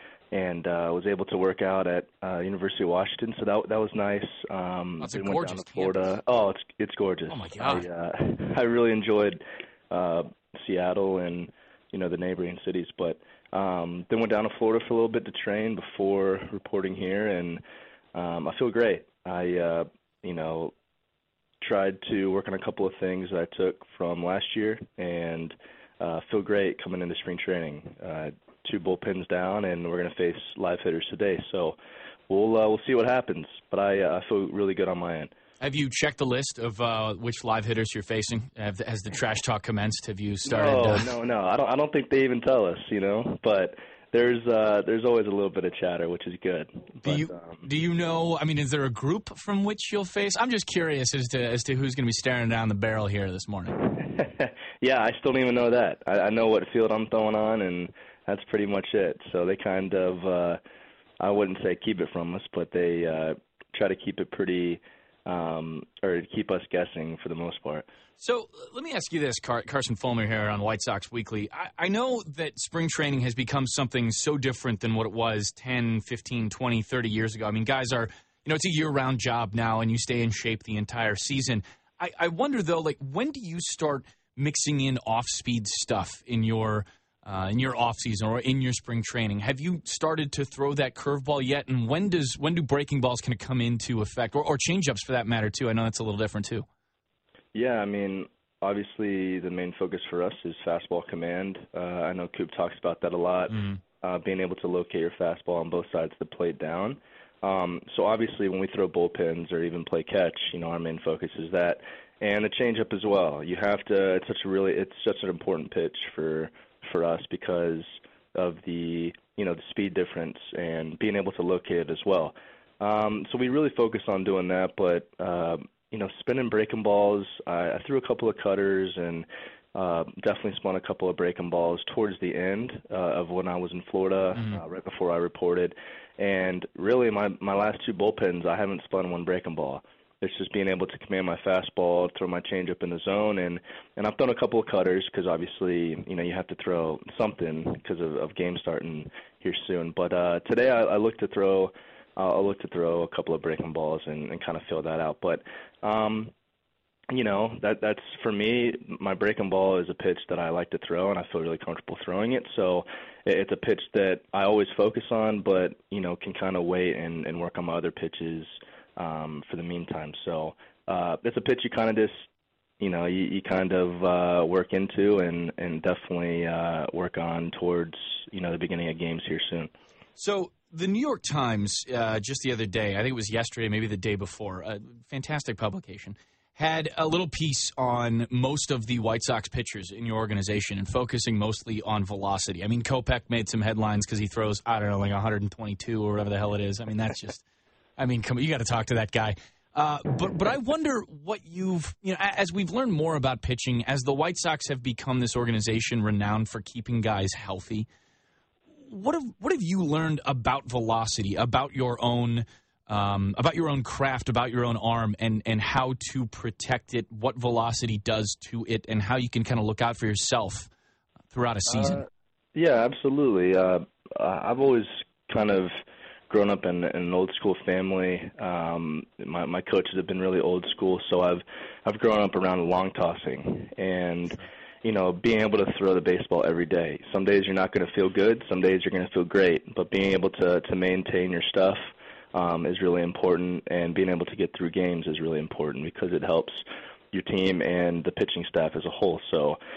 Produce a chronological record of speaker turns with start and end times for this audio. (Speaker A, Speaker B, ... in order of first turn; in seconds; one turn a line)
Speaker A: 0.3-17.6
Speaker B: 5.0-6.1
Speaker B: 7.3-7.9
Speaker A: 18.1-20.7
Speaker A: 21.6-31.8
Speaker A: 32.3-35.3
Speaker B: 35.6-41.1
Speaker A: 40.5-47.6
Speaker B: 47.0-53.8
Speaker A: 53.8-60.6
Speaker A: 61.2-67.9
Speaker B: 68.2-96.7
Speaker A: 97.5-156.3
Speaker A: 157.1-172.2
Speaker A: 172.8-179.7
Speaker B: 180.2-197.4
Speaker B: 198.0-207.9
Speaker B: 208.9-220.7
Speaker B: 221.3-222.0
Speaker A: 221.7-249.6